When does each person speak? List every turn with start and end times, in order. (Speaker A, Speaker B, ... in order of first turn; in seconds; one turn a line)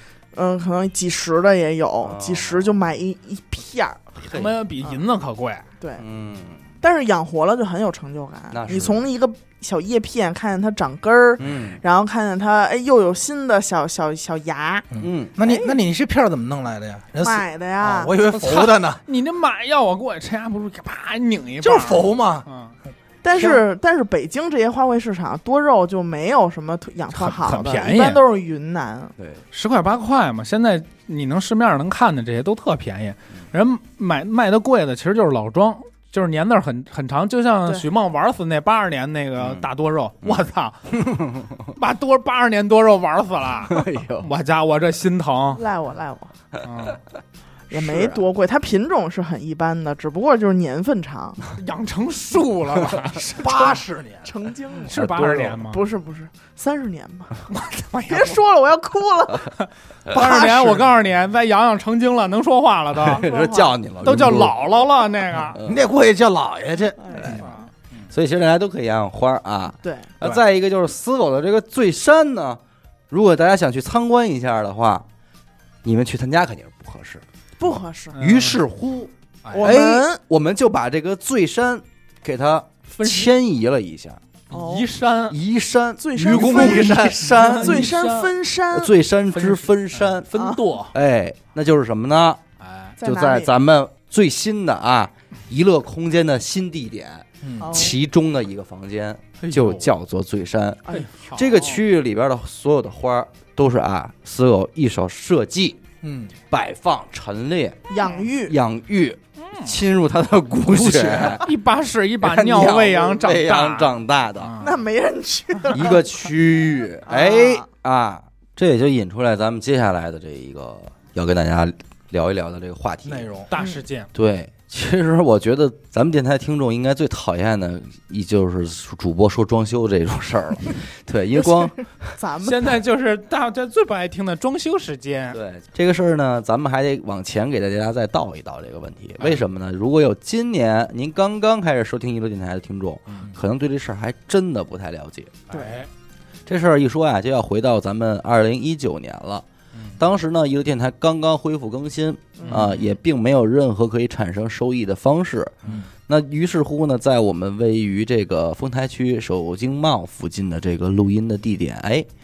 Speaker A: 0.3-4.0
Speaker B: 2.0-2.8
Speaker B: 4.2-4.5
Speaker C: 4.3-5.7
Speaker B: 6.0-6.6
Speaker A: 6.8-14.9
Speaker B: 8.5-9.0
Speaker B: 11.4-11.8
Speaker D: 14.9-19.0
Speaker B: 15.0-15.3
Speaker A: 15.4-15.8
Speaker A: 17.2-18.1
Speaker C: 18.3-22.7
Speaker D: 21.6-22.5
Speaker A: 23.2-29.1
Speaker D: 23.3-23.6
Speaker C: 27.1-28.2
Speaker B: 29.2-29.4
Speaker C: 29.5-41.0
Speaker B: 39.4-39.7
Speaker B: 41.0-41.6
Speaker C: 41.7-45.6
Speaker B: 43.7-44.3
Speaker A: 45.5-46.3
Speaker C: 46.6-47.0
Speaker A: 47.7-51.4
Speaker B: 47.7-48.2
Speaker C: 51.5-53.8
Speaker D: 53.3-54.3
Speaker A: 54.2-55.0
Speaker C: 54.9-55.8
Speaker B: 54.9-55.6
Speaker A: 55.6-57.4
Speaker C: 57.5-58.4
Speaker A: 58.1-59.5
Speaker C: 59.5-63.3
Speaker A: 60.1-60.9
Speaker B: 63.0-64.6
Speaker A: 63.0-63.8
Speaker C: 64.0-65.6
Speaker B: 65.5-65.8
Speaker D: 65.6-67.4
Speaker A: 67.0-67.6
Speaker C: 67.2-68.1
Speaker B: 68.1-75.0
Speaker A: 69.8-70.1
Speaker B: 75.8-77.2
Speaker A: 77.6-78.2
Speaker C: 78.2-78.6
Speaker B: 78.2-84.2
Speaker C: 79.4-79.8
Speaker A: 79.5-80.2
Speaker C: 83.0-83.3
Speaker A: 84.5-84.9
Speaker C: 84.5-85.4
Speaker B: 85.3-88.0
Speaker A: 86.0-88.9
Speaker C: 86.2-88.3
Speaker B: 88.7-90.3
Speaker C: 89.3-91.0
Speaker B: 90.9-92.4
Speaker C: 92.6-93.0
Speaker A: 93.0-93.5
Speaker B: 93.0-105.8
Speaker D: 97.4-97.8
Speaker A: 97.6-98.0
Speaker C: 99.4-99.9
Speaker C: 100.9-101.8
Speaker D: 106.0-106.3
Speaker B: 106.5-111.5
Speaker A: 107.9-108.6
Speaker C: 109.4-109.8
Speaker D: 110.7-111.4
Speaker C: 111.2-114.8
Speaker B: 112.2-114.6
Speaker A: 114.6-116.0
Speaker B: 115.7-123.3
Speaker A: 117.1-117.7
Speaker D: 123.0-123.5
Speaker C: 123.5-124.1
Speaker B: 124.1-132.2
Speaker A: 131.4-132.6
Speaker C: 132.4-135.4
Speaker B: 135.3-145.4
Speaker C: 145.5-145.9
Speaker A: 145.5-145.8
Speaker B: 146.5-149.5
Speaker B: 150.0-155.5
Speaker A: 152.4-152.6
Speaker C: 152.5-152.9
Speaker B: 156.1-162.1